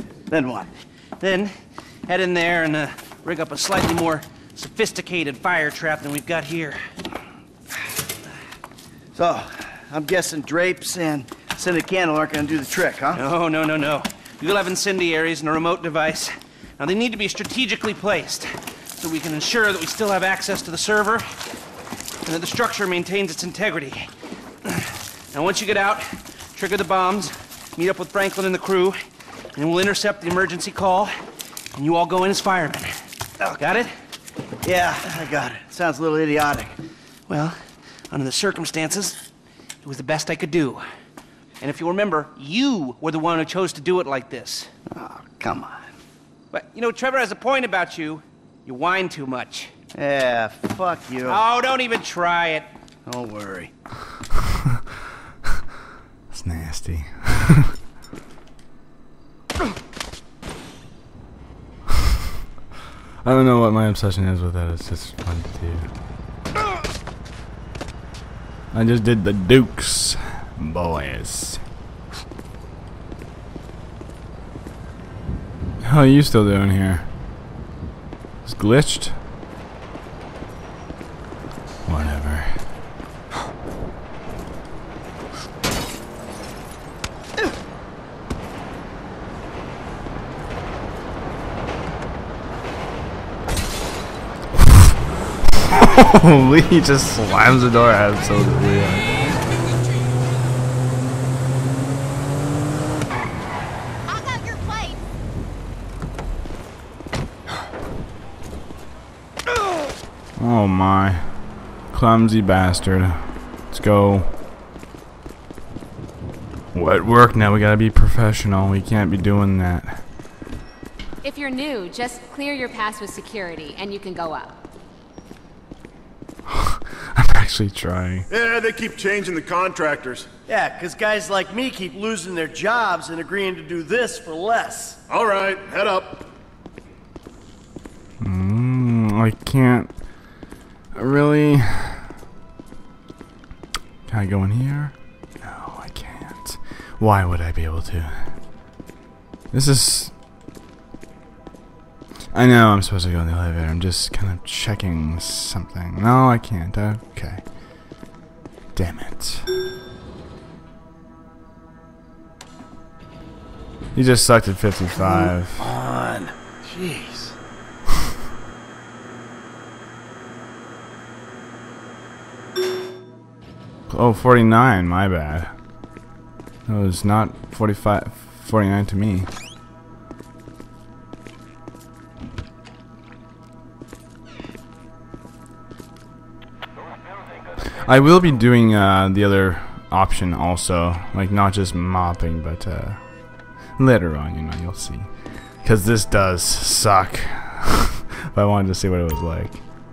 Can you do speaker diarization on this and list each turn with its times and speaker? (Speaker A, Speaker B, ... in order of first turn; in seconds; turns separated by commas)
Speaker A: 0.3-0.7, Speaker B: 1.2-1.5, Speaker B: 2.1-6.8, Speaker A: 9.1-13.2, Speaker B: 13.1-21.2, Speaker B: 22.2-24.1, Speaker B: 24.6-29.0, Speaker B: 29.5-31.1, Speaker B: 31.7-33.9, Speaker A: 34.6-36.8, Speaker B: 37.3-37.6, Speaker B: 38.1-39.2, Speaker B: 39.8-40.8, Speaker B: 41.6-44.7, Speaker A: 44.9-45.9, Speaker B: 46.5-49.7, Speaker A: 49.9-51.4, Speaker B: 51.2-52.7, Speaker A: 53.0-53.7, Speaker C: 54.4-54.8, Speaker C: 56.3-57.7, Speaker C: 63.2-65.9, Speaker C: 68.7-71.6, Speaker C: 75.8-77.1, Speaker C: 78.4-79.2, Speaker C: 81.8-82.6, Speaker C: 94.6-95.0, Speaker C: 95.5-99.1, Speaker C: 110.4-111.3, Speaker C: 111.9-114.3, Speaker C: 116.7-120.0, Speaker D: 121.2-124.6, Speaker C: 126.5-128.3, Speaker E: 128.3-130.3, Speaker A: 130.5-135.0, Speaker E: 135.1-136.3, Speaker C: 138.2-139.9, Speaker C: 140.9-142.1, Speaker C: 144.1-148.3, Speaker C: 149.5-150.1, Speaker C: 152.3-157.5, Speaker C: 158.7-159.5, Speaker C: 163.9-165.7, Speaker A: 165.0-167.3, Speaker C: 173.9-175.5, Speaker C: 176.7-179.3, Speaker C: 187.7-199.6